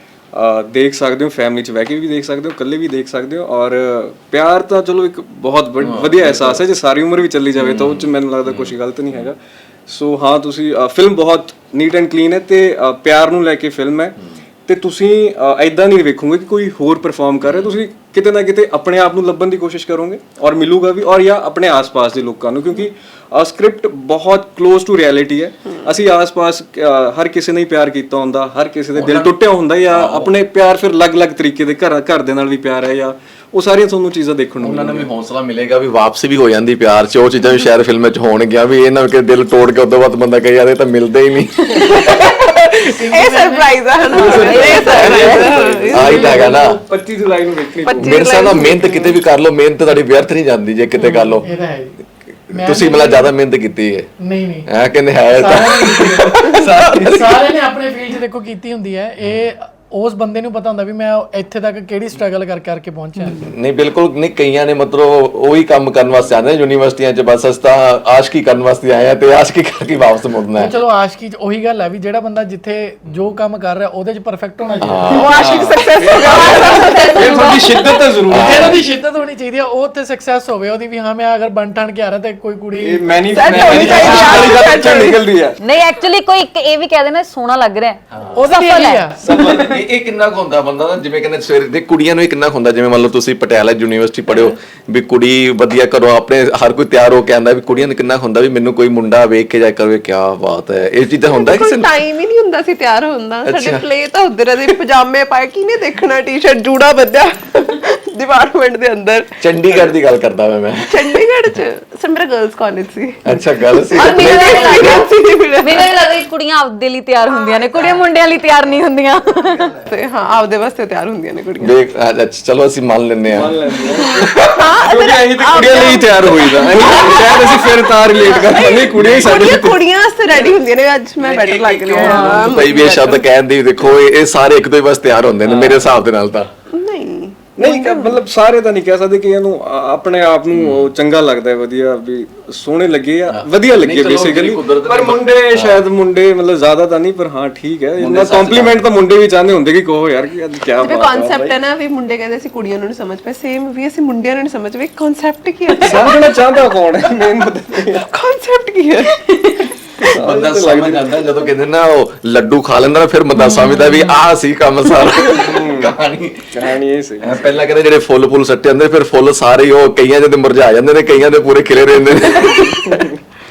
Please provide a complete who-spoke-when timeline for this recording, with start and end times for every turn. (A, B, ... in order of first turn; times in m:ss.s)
0:00.3-0:35.1 A
0:05.8-0:06.6 B
0:07.6-0:09.3 B
0:17.4-0:17.8 B
0:28.9-0:29.4 B
0:29.9-0:30.3 B
0:34.6-0:42.2 B
0:41.8-0:46.5 C
0:42.8-0:44.5 D
0:44.1-0:46.8 B
0:44.1-0:45.3 E
0:44.2-0:48.2 A
0:47.8-0:49.2 C
0:48.0-0:51.5 B
0:51.0-0:51.4 E
0:51.4-0:52.0 D
0:52.5-0:53.3 D
0:52.5-0:54.1 B
0:54.2-0:54.7 D
0:54.7-0:57.5 B
0:55.3-1:03.5 D
1:03.4-1:10.7 B
1:10.6-1:15.4 D
1:14.8-1:15.5 B
1:15.1-1:17.6 C
1:15.3-1:18.8 A
1:16.2-1:17.9 E
1:18.3-1:18.8 B
1:18.3-1:23.5 D
1:22.8-1:25.6 A
1:23.3-1:25.2 C
1:23.6-1:24.6 B
1:25.6-1:29.1 E
1:28.3-1:29.2 D
1:29.2-1:29.8 A
1:29.3-1:41.9 B
1:41.2-1:49.9 C
1:43.4-1:43.8 B
1:49.4-1:51.2 B
1:50.9-1:55.9 C
1:53.2-1:54.8 B
1:54.0-1:59.8 E
1:57.4-1:57.8 C
1:59.8-2:01.7 C
2:01.6-2:03.6 B
2:03.3-2:09.8 A
2:03.8-2:13.2 C
2:11.2-2:16.5 B
2:11.9-2:12.6 A
2:15.4-2:16.0 A
2:16.7-2:18.2 C
2:17.6-2:31.6 A
2:20.5-2:20.9 B
2:23.3-2:25.8 B
2:28.0-2:28.8 B
2:30.8-2:36.3 C
2:35.8-2:38.0 A
2:37.8-2:39.4 C
2:40.0-2:41.1 A
2:40.2-2:46.7 B
2:43.3-2:44.2 E
2:45.3-2:45.9 A
2:46.5-2:47.6 A
2:47.2-2:53.0 B
2:52.4-2:53.1 A